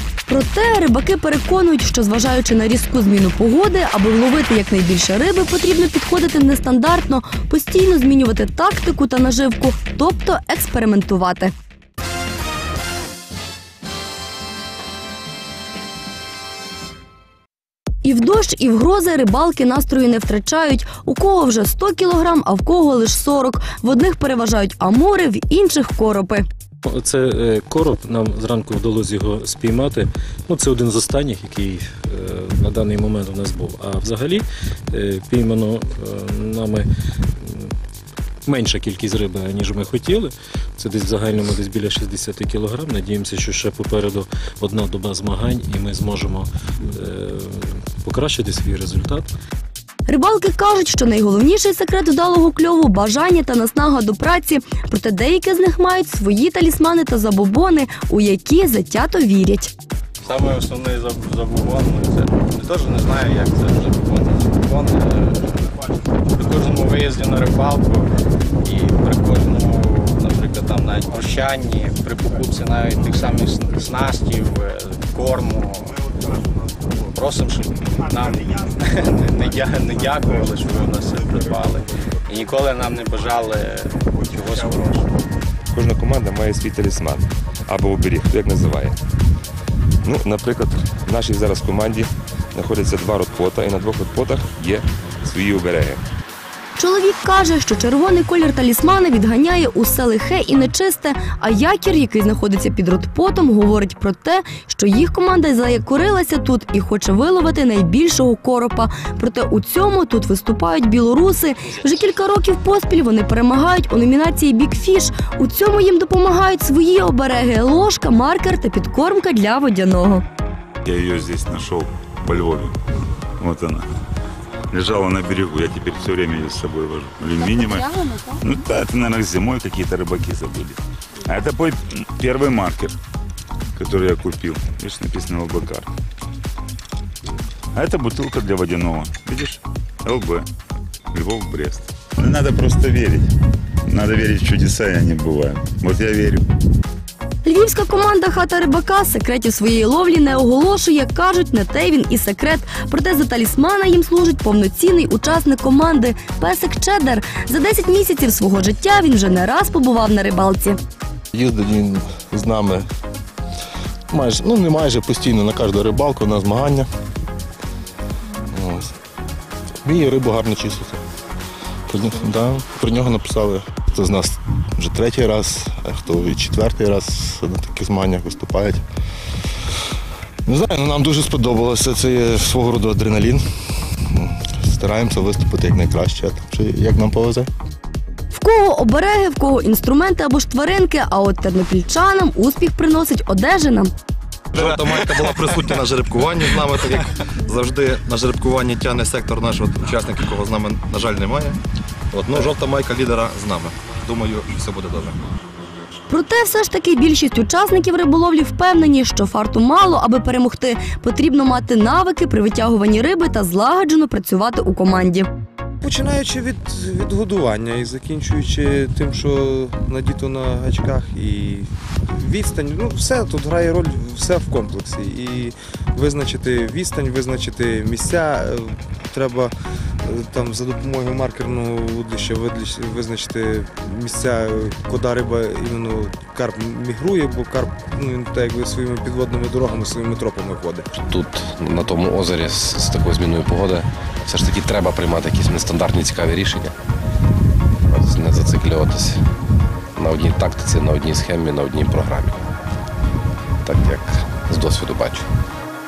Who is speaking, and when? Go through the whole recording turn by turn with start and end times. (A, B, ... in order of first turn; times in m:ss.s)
0:00.3-0:11.5 A
0:18.0-0:26.4 A
0:26.8-0:36.9 B
0:37.4-0:37.7 B
0:38.5-0:49.3 B
0:50.1-0:59.7 A
1:00.2-1:05.6 C
1:06.4-1:08.1 C
1:08.6-1:16.0 C
1:17.2-1:25.0 C
1:25.7-1:29.0 D
1:30.0-1:36.0 D
1:36.8-2:00.2 A
2:00.8-2:02.8 E
2:03.4-2:03.9 E
2:04.7-2:13.0 E
2:13.8-2:15.9 E
2:17.8-2:20.5 E
2:21.1-2:23.3 E
2:23.9-2:26.4 E
2:27.4-2:40.8 A
2:41.3-2:42.9 F
2:44.1-2:46.9 F
2:48.4-2:48.9 F
2:49.8-2:51.0 F
2:51.9-2:58.8 F
3:00.5-3:03.4 F
3:04.1-3:07.5 F
3:08.3-3:13.9 A
3:14.5-3:21.6 G
3:22.1-3:25.2 G
3:26.1-3:35.3 A
3:35.8-3:49.5 H
3:50.0-4:00.9 H
4:00.9-4:06.8 I
4:07.9-4:09.2 I
4:10.0-4:12.4 I
4:13.6-4:15.3 I